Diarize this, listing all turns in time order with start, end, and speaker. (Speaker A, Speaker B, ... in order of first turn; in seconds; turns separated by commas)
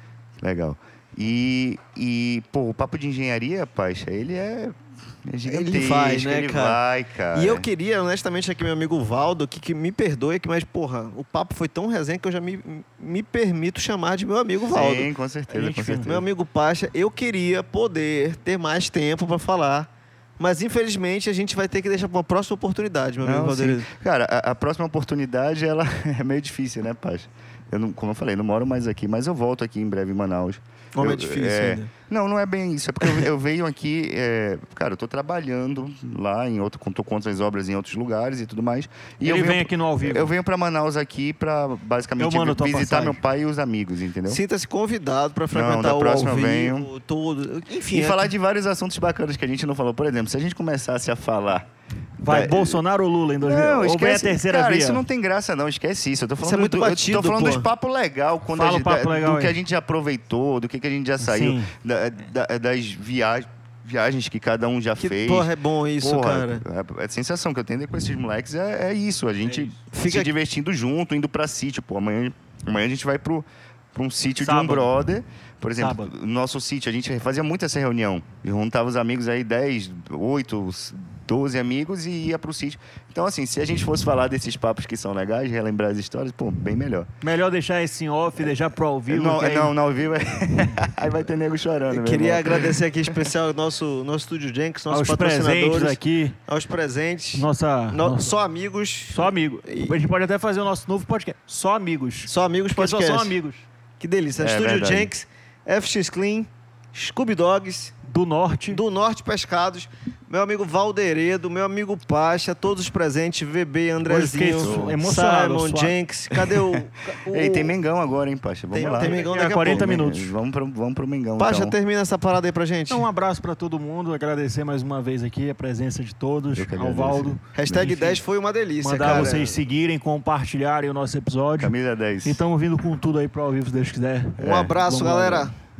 Speaker A: 0.4-7.7, Speaker B: 5.5-6.8, Speaker B: 7.3-15.1, Speaker A: 14.7-16.2, Speaker C: 15.5-16.2, Speaker B: 16.0-23.9, Speaker A: 23.2-44.4, Speaker B: 30.9-31.9, Speaker C: 39.2-40.3, Speaker C: 42.2-43.2, Speaker B: 44.3-48.3, Speaker A: 45.5-46.9, Speaker A: 47.9-51.7, Speaker A: 52.2-52.8, Speaker C: 52.2-55.0, Speaker A: 53.4-87.1, Speaker B: 56.4-57.7, Speaker C: 58.5-59.5, Speaker C: 61.2-61.7, Speaker B: 65.0-66.6, Speaker C: 69.5-69.7, Speaker B: 69.9-70.3, Speaker C: 74.4-74.9, Speaker C: 75.8-76.1, Speaker C: 87.2-89.7, Speaker A: 89.1-92.8, Speaker B: 91.9-99.9, Speaker C: 94.9-96.4, Speaker C: 97.3-98.3, Speaker C: 99.1-103.7, Speaker B: 102.2-103.3, Speaker B: 104.0-108.0, Speaker A: 104.4-105.1, Speaker C: 108.0-108.8, Speaker B: 108.7-117.7, Speaker C: 114.0-115.9, Speaker A: 114.6-114.9, Speaker A: 116.3-121.8, Speaker B: 118.7-119.9, Speaker C: 119.0-120.3, Speaker B: 121.4-123.1, Speaker C: 122.9-128.2, Speaker A: 126.5-127.9, Speaker B: 127.5-129.6, Speaker C: 128.8-135.5, Speaker A: 131.6-132.4, Speaker B: 134.4-135.5, Speaker A: 134.4-134.7